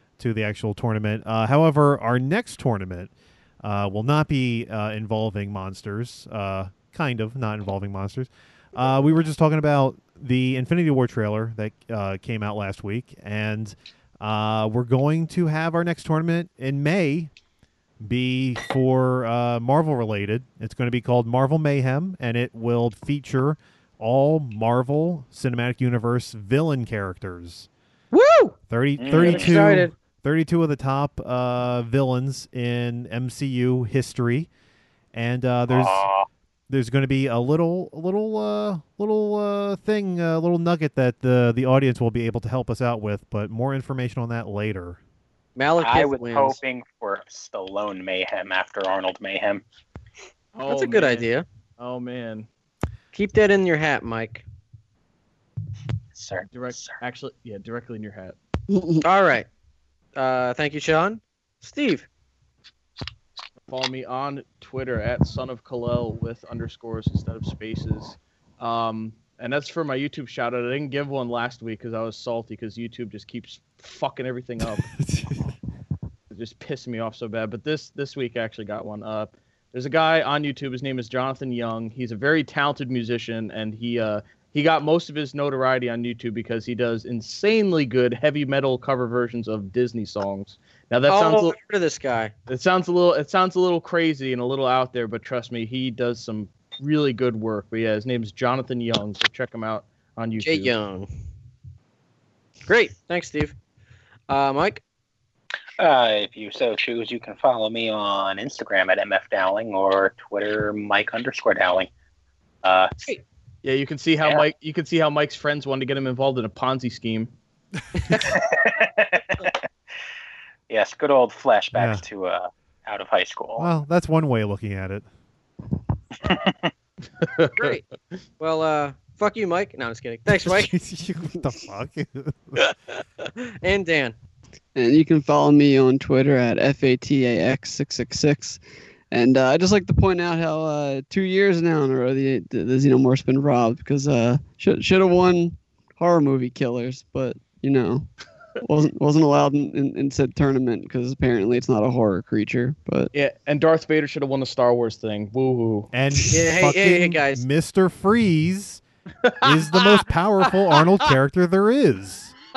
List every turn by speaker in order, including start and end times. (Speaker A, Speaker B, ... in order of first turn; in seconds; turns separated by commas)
Speaker A: 0.2-17.3, Speaker A: 18.0-27.7, Speaker B: 28.1-28.6, Speaker A: 28.7-34.5, Speaker C: 29.0-29.6, Speaker B: 29.1-29.9, Speaker A: 35.1-36.1, Speaker C: 35.7-36.3, Speaker A: 36.7-45.0, Speaker B: 45.6-46.6, Speaker C: 45.8-49.6, Speaker D: 50.5-52.5, Speaker B: 50.7-51.5, Speaker B: 53.1-54.4, Speaker C: 56.1-57.0, Speaker D: 56.5-58.4, Speaker E: 58.7-59.0, Speaker B: 59.0-59.5, Speaker B: 60.2-62.1, Speaker D: 63.7-74.9, Speaker A: 75.0-75.4, Speaker D: 76.3-91.5, Speaker B: 91.1-92.3, Speaker D: 92.5-100.7, Speaker B: 100.4-101.1, Speaker B: 102.7-103.5, Speaker B: 104.3-104.8, Speaker C: 105.8-111.9, Speaker C: 112.6-112.9, Speaker D: 113.6-117.3, Speaker C: 118.2-119.5, Speaker C: 120.7-123.7, Speaker A: 121.7-122.0, Speaker A: 123.6-125.1, Speaker C: 126.2-126.6, Speaker D: 127.2-127.8, Speaker B: 127.6-127.8, Speaker B: 128.4-130.7, Speaker A: 130.4-132.6, Speaker B: 133.2-134.2, Speaker E: 134.8-138.6, Speaker E: 139.1-148.1, Speaker E: 148.6-153.1, Speaker D: 153.1-155.9, Speaker A: 155.9-158.8, Speaker B: 156.3-157.4, Speaker D: 159.2-160.0, Speaker A: 159.4-162.3